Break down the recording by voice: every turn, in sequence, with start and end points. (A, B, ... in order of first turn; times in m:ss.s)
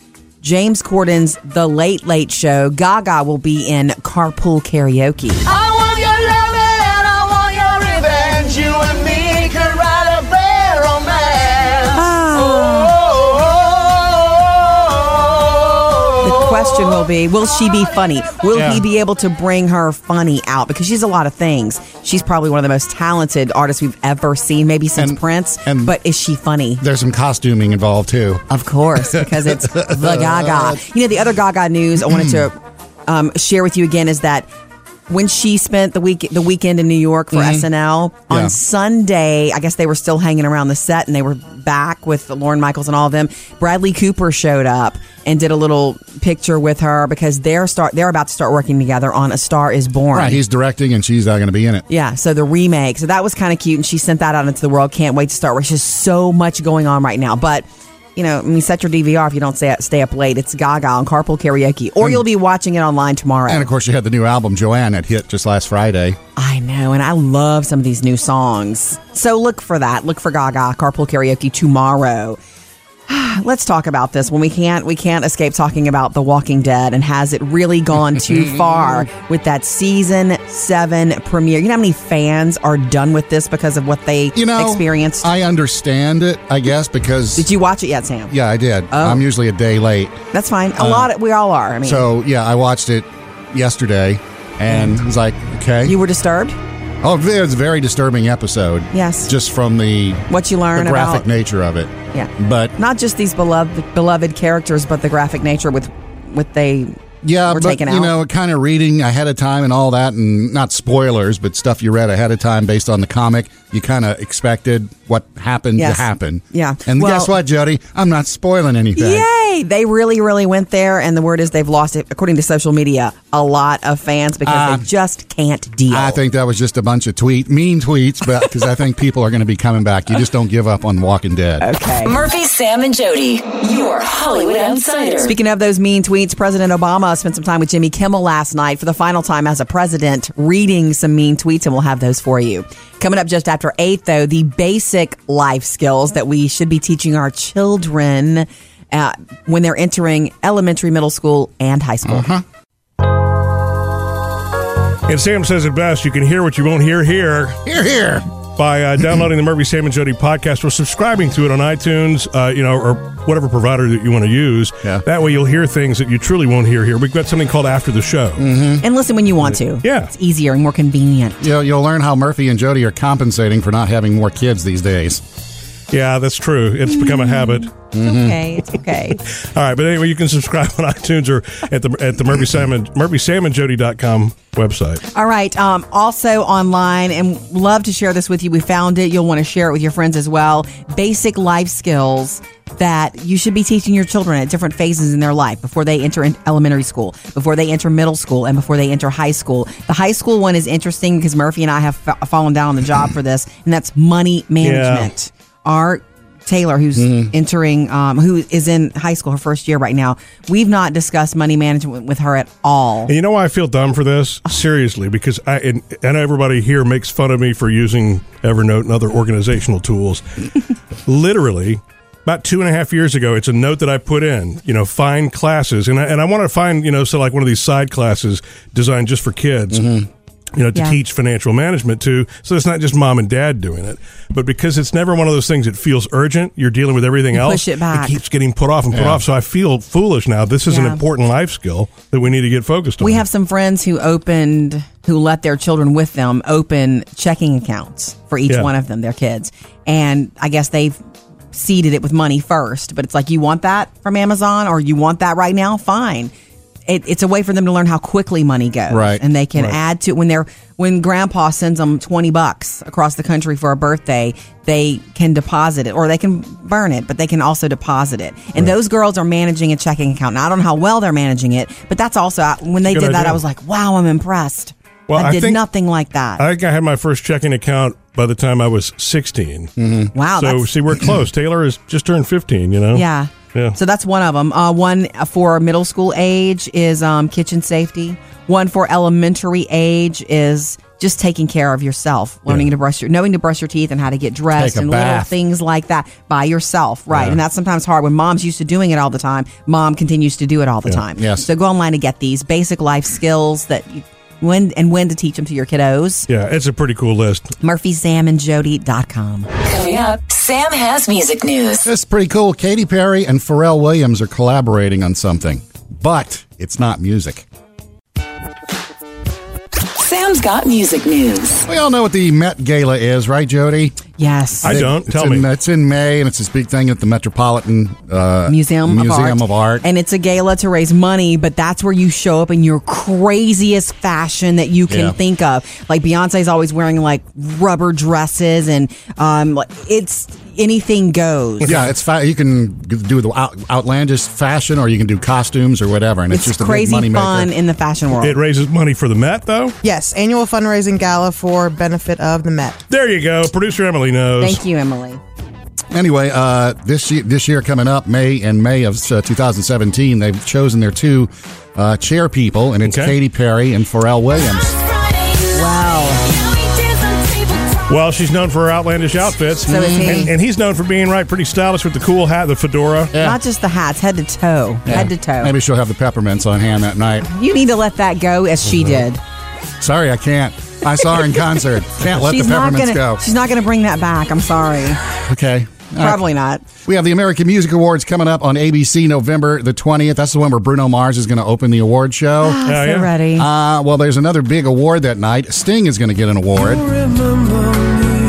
0:00.4-0:05.4 A
0:05.4-0:12.0 B
0:11.9-0:13.0 A
0:12.6-0:16.2 B
0:16.2-0:26.8 A
0:18.5-0:18.8 C
0:25.0-0:26.0 C
0:26.8-0:28.5 C
0:28.5-0:34.5 A
0:29.0-0:30.8 C
0:32.0-0:32.5 C
0:35.1-0:50.4 A
0:37.3-0:37.7 C
0:38.3-0:38.6 C
0:50.1-0:51.8 C
0:51.9-1:03.7 A
1:03.5-1:06.2 C
1:06.4-1:12.4 A
1:13.1-1:25.3 A
1:24.4-1:27.5 C
1:27.4-1:28.3 A
1:28.3-1:30.2 C
1:28.9-1:29.2 A
1:30.3-1:32.0 A
1:30.8-1:31.1 C
1:31.8-1:36.0 C
1:35.8-1:36.6 A
1:37.0-1:42.8 C
1:38.9-1:39.3 A
1:40.3-1:41.2 A
1:42.1-1:48.1 A
1:47.2-1:59.3 C
1:55.8-1:57.3 A
1:59.0-2:06.2 A
2:04.4-2:04.9 C
2:05.9-2:11.7 C
2:11.6-2:12.2 A
2:12.0-2:15.4 D
2:15.2-2:32.3 A
2:32.0-2:32.4 C
2:35.1-2:37.6 E
2:37.6-2:38.3 C
2:38.6-2:48.5 E
2:48.4-2:48.8 C
2:48.8-2:51.4 A
2:49.8-2:50.1 E
2:51.4-2:55.2 C
2:55.9-2:57.7 E
2:56.9-2:59.2 A
2:57.9-2:58.4 C
2:59.4-3:05.0 E
3:05.1-3:33.1 A
3:24.6-3:25.1 E
3:27.0-3:27.3 C
3:33.1-3:40.3 E
3:41.1-3:50.0 E
3:49.7-3:50.1 C
3:50.6-4:03.2 E
3:57.3-3:58.2 A
3:58.9-3:59.2 C
4:00.7-4:01.0 A
4:03.0-4:11.0 A
4:11.5-4:16.3 A
4:16.9-4:36.4 A
4:18.9-4:19.2 C
4:32.8-4:33.4 E
4:35.1-4:35.6 E
4:36.4-4:39.7 E
4:39.8-4:40.1 C
4:40.1-4:40.7 A
4:40.4-4:43.8 E
4:42.9-5:06.3 A
4:54.5-4:55.3 C
4:57.1-4:57.4 C
5:01.2-5:01.5 C
5:06.3-5:07.5 E
5:07.6-5:09.5 A
5:09.6-5:11.9 D
5:11.8-5:17.5 C
5:20.0-5:21.7 D
5:21.7-5:24.0 C
5:24.2-5:24.8 A
5:24.6-5:25.5 E
5:24.6-5:29.8 C
5:28.5-5:41.8 A
5:34.9-5:35.2 C
5:41.7-5:47.5 C
5:46.3-5:48.4 A
5:48.2-5:49.8 E
5:49.8-5:52.8 F
5:52.9-5:54.6 E
5:54.4-5:55.2 A
5:55.9-6:04.8 C
6:02.8-6:03.1 E
6:05.1-6:05.4 D
6:05.5-6:06.3 A
6:06.6-6:07.8 D
6:07.9-6:13.1 E
6:09.7-6:10.3 A
6:09.7-6:10.3 C
6:13.1-6:13.4 C
6:13.2-6:15.5 A
6:14.9-6:17.3 C
6:17.3-6:19.2 A
6:18.6-6:19.0 C
6:19.8-6:23.2 C
6:22.1-6:25.0 A
6:25.3-6:26.2 C
6:26.0-6:26.7 A
6:26.8-6:32.6 C
6:32.4-6:33.5 A
6:32.7-6:33.1 E
6:33.4-6:37.0 C